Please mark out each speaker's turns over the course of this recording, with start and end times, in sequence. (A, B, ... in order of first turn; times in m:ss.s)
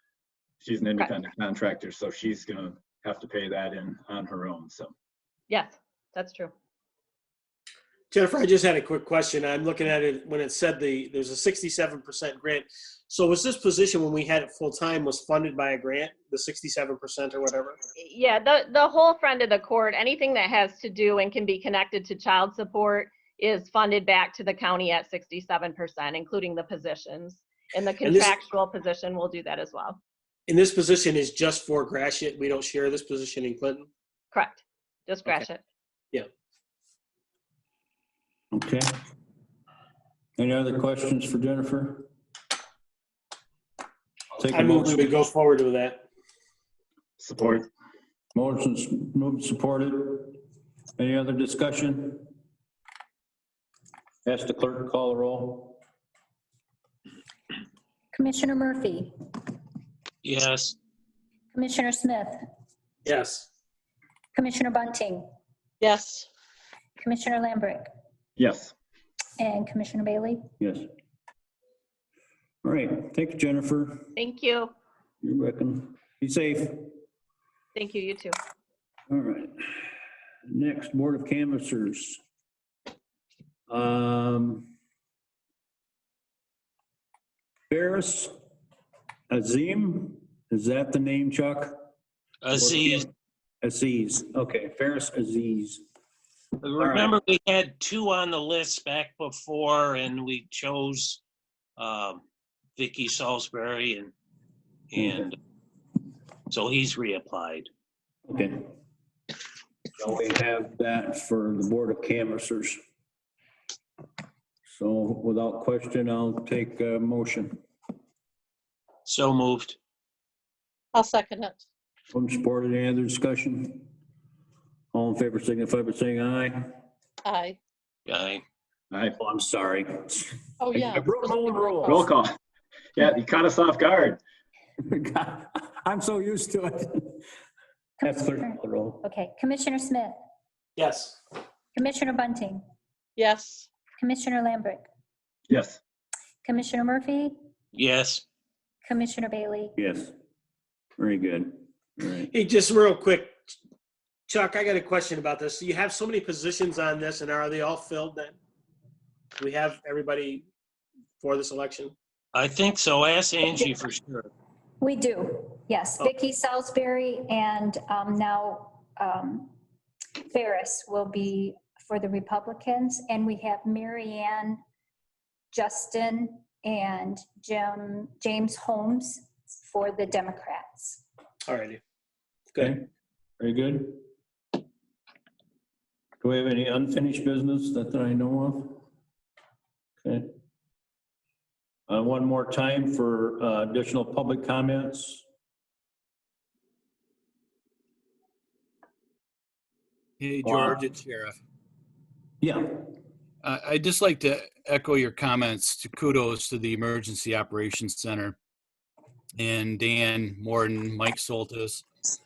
0:00.6-0:04.9 A
0:05.5-0:06.5 B
0:08.1-0:17.8 C
0:18.0-0:30.0 B
0:28.0-0:28.3 C
0:30.5-0:33.9 C
0:34.3-0:35.6 B
0:38.5-0:38.9 D
0:40.4-0:42.1 D
0:44.4-0:45.1 D
0:44.5-0:46.0 C
0:47.2-0:47.7 A
0:48.4-0:50.4 D
0:51.0-0:52.3 D
0:54.2-0:55.8 D
0:58.1-0:59.1 E
1:00.2-1:00.8 F
1:01.5-1:02.4 E
1:03.0-1:03.5 C
1:04.3-1:05.3 E
1:05.8-1:06.3 G
1:07.0-1:07.9 E
1:08.4-1:08.7 A
1:09.4-1:10.4 E
1:10.6-1:10.9 D
1:12.6-1:14.1 D
1:14.2-1:14.7 B
1:15.2-1:16.9 D
1:17.8-1:18.4 B
1:19.1-1:19.6 D
1:20.5-1:22.2 D
1:23.7-1:24.7 D
1:27.7-1:28.3 D
1:29.3-1:31.8 D
1:32.4-1:33.1 F
1:32.5-1:33.1 D
1:33.6-1:35.8 D
1:36.6-1:41.2 F
1:41.8-1:42.2 F
1:42.8-1:44.1 F
1:44.9-1:45.4 F
1:46.5-1:47.7 F
1:48.3-1:48.7 D
1:50.0-1:52.8 D
1:54.7-1:57.6 D
1:59.0-1:59.8 F
2:00.9-2:01.6 G
2:02.1-2:03.9 D
2:04.9-2:06.8 D
2:07.2-2:07.6 G
2:08.1-2:08.4 F
2:08.9-2:09.2 A
2:09.2-2:12.0 D
2:10.6-2:12.1 G
2:11.9-2:12.4 A
2:13.0-2:14.2 A
2:14.8-2:17.2 D
2:18.0-2:20.2 E
2:18.0-2:19.0 D
2:20.8-2:21.2 C
2:21.8-2:22.6 E
2:23.2-2:23.7 G
2:24.0-2:24.9 E
2:25.5-2:25.8 A
2:26.4-2:27.3 E
2:27.7-2:28.2 F
2:28.8-2:29.8 E
2:29.8-2:30.1 D
2:31.0-2:32.3 D
2:32.3-2:33.5 C
2:34.3-2:38.4 C
2:39.4-2:40.5 C
2:41.2-2:41.9 C
2:42.3-2:44.3 F
2:44.8-2:49.5 E
2:50.2-2:54.6 E
2:55.5-3:01.0 E
3:01.5-3:01.8 C
3:02.6-3:02.8 D
3:03.4-3:04.0 D
3:06.2-3:08.8 D
3:10.0-3:10.3 D
3:11.9-3:15.2 D
3:20.2-3:21.4 H
3:20.4-3:20.8 D
3:22.4-3:22.8 D
3:23.4-3:28.4 H
3:29.4-3:31.9 H